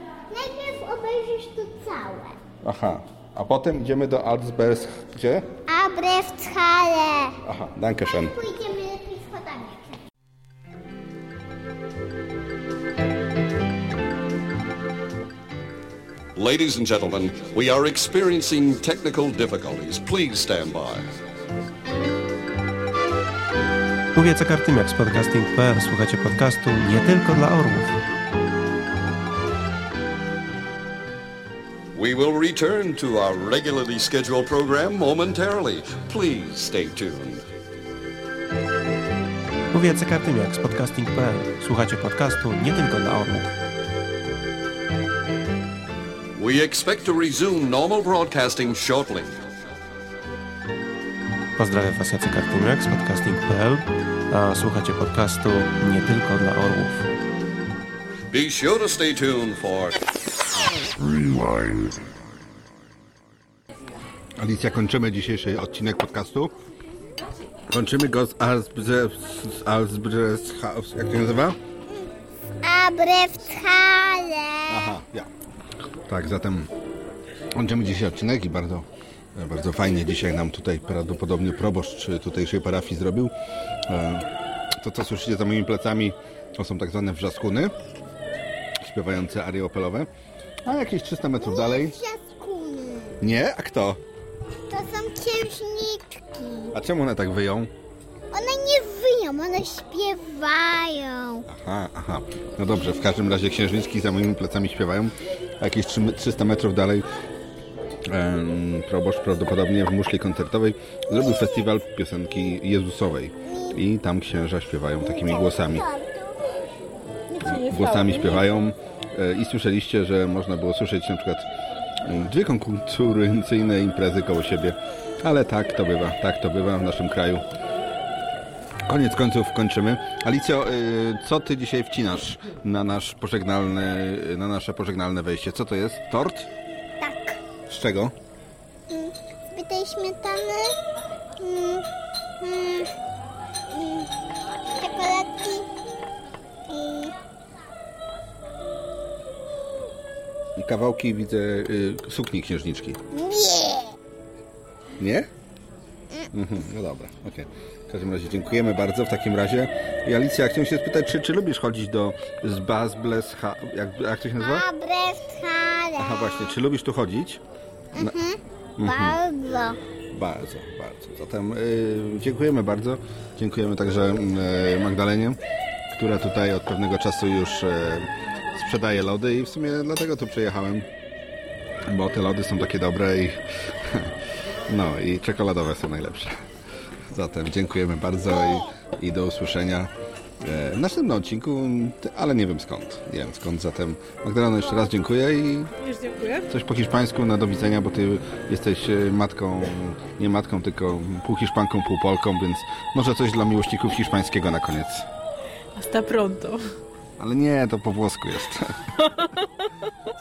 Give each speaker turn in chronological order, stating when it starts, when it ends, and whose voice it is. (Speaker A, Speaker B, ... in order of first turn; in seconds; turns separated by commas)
Speaker A: 0.3-2.4, Speaker B: 2.6-5.5, Speaker A: 5.7-7.4, Speaker B: 7.4-8.4, Speaker A: 8.1-10.0, Speaker C: 16.4-21.1, Speaker D: 24.1-27.9, Speaker C: 31.9-37.5, Speaker D: 39.7-43.5, Speaker C: 46.4-49.4, Speaker D: 51.6-57.0, Speaker C: 58.3-60.0, Speaker C: 61.0-61.9, Speaker B: 64.4-66.5, Speaker B: 67.7-71.6, Speaker A: 72.6-74.9, Speaker B: 74.7-75.3, Speaker B: 76.0-76.7, Speaker B: 77.5-83.3, Speaker B: 83.9-87.7, Speaker B: 88.8-90.1, Speaker B: 90.6-92.0, Speaker A: 91.4-93.2, Speaker B: 93.2-94.0, Speaker A: 94.7-96.7, Speaker B: 96.7-97.7, Speaker A: 98.3-101.5, Speaker B: 101.5-107.0, Speaker B: 108.1-115.9, Speaker A: 111.1-111.7, Speaker A: 113.5-113.8, Speaker A: 115.0-116.6, Speaker A: 117.3-118.2, Speaker B: 117.5-121.5, Speaker E: 117.5-118.2, Speaker B: 122.0-127.4, Speaker B: 128.9-136.5, Speaker A: 137.0-137.4, Speaker B: 137.7-138.1, Speaker A: 138.9-140.7, Speaker A: 141.4-141.8, Speaker A: 142.4-142.9, Speaker A: 143.7-144.1, Speaker A: 144.7-145.7, Speaker A: 146.7-147.1, Speaker B: 150.6-153.0, Speaker A: 153.1-153.9, Speaker B: 155.0-155.3, Speaker B: 156.3-164.6, Speaker A: 164.4-166.4, Speaker B: 166.0-167.4, Speaker A: 168.0-169.8, Speaker B: 168.8-169.2, Speaker B: 170.1-175.4, Speaker B: 175.9-180.9, Speaker B: 181.9-184.2, Speaker B: 184.7-186.4, Speaker B: 187.1-195.7, Speaker E: 195.8-196.5, Speaker B: 196.5-205.1, Speaker E: 205.7-206.6, Speaker B: 207.2-208.8, Speaker E: 209.0-209.7